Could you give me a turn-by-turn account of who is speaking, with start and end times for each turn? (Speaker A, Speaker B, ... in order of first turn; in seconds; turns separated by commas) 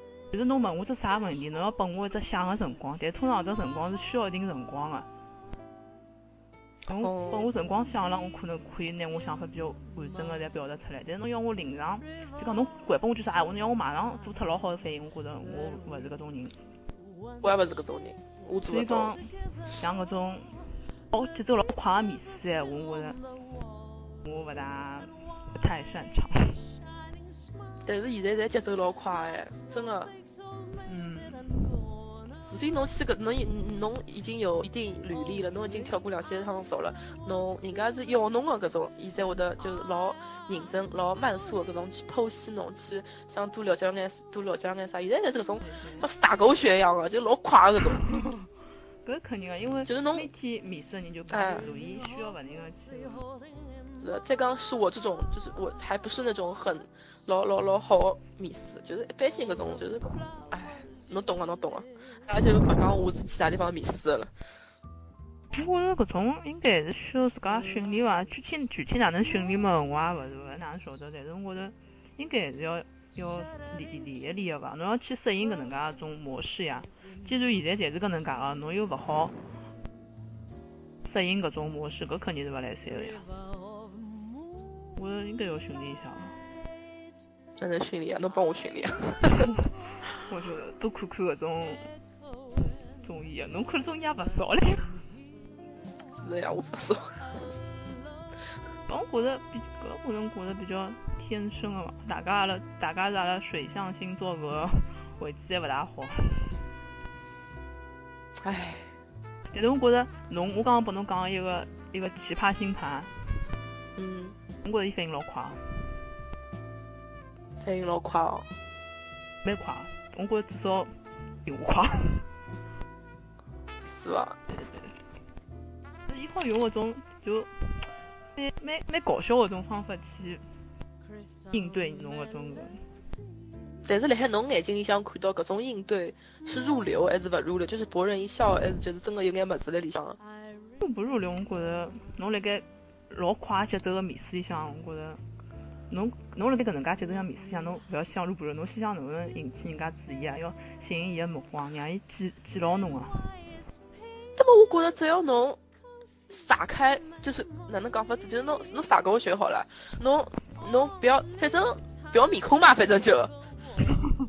Speaker A: 0.3-5.1, Speaker A: 6.9-16.6, Speaker B: 7.0-7.5, Speaker B: 17.4-19.1, Speaker A: 18.6-23.2, Speaker A: 24.2-26.6, Speaker B: 27.9-30.1, Speaker A: 30.9-31.8, Speaker B: 32.5-48.1, Speaker A: 45.6-46.1, Speaker A: 48.0-48.5, Speaker A: 49.0-53.3, Speaker B: 49.9-50.3, Speaker B: 51.3-51.6, Speaker B: 54.0-64.3, Speaker A: 65.5-79.4, Speaker A: 81.0-83.3, Speaker A: 85.0-86.4, Speaker B: 87.6-89.5, Speaker A: 89.4-91.9, Speaker A: 93.0-95.0, Speaker B: 96.1-97.5, Speaker A: 98.9-106.6, Speaker B: 108.4-108.9, Speaker A: 109.5-113.1, Speaker B: 114.0-114.4, Speaker A: 114.6-115.9, Speaker B: 117.6-118.5, Speaker A: 119.4-120.9, Speaker A: 121.5-122.3, Speaker B: 123.8-124.4, Speaker A: 124.5-124.9, Speaker A: 126.1-130.4, Speaker A: 131.5-132.9, Speaker B: 133.9-140.2, Speaker A: 140.8-145.2, Speaker A: 145.9-153.4, Speaker B: 154.4-155.6, Speaker B: 156.3-163.3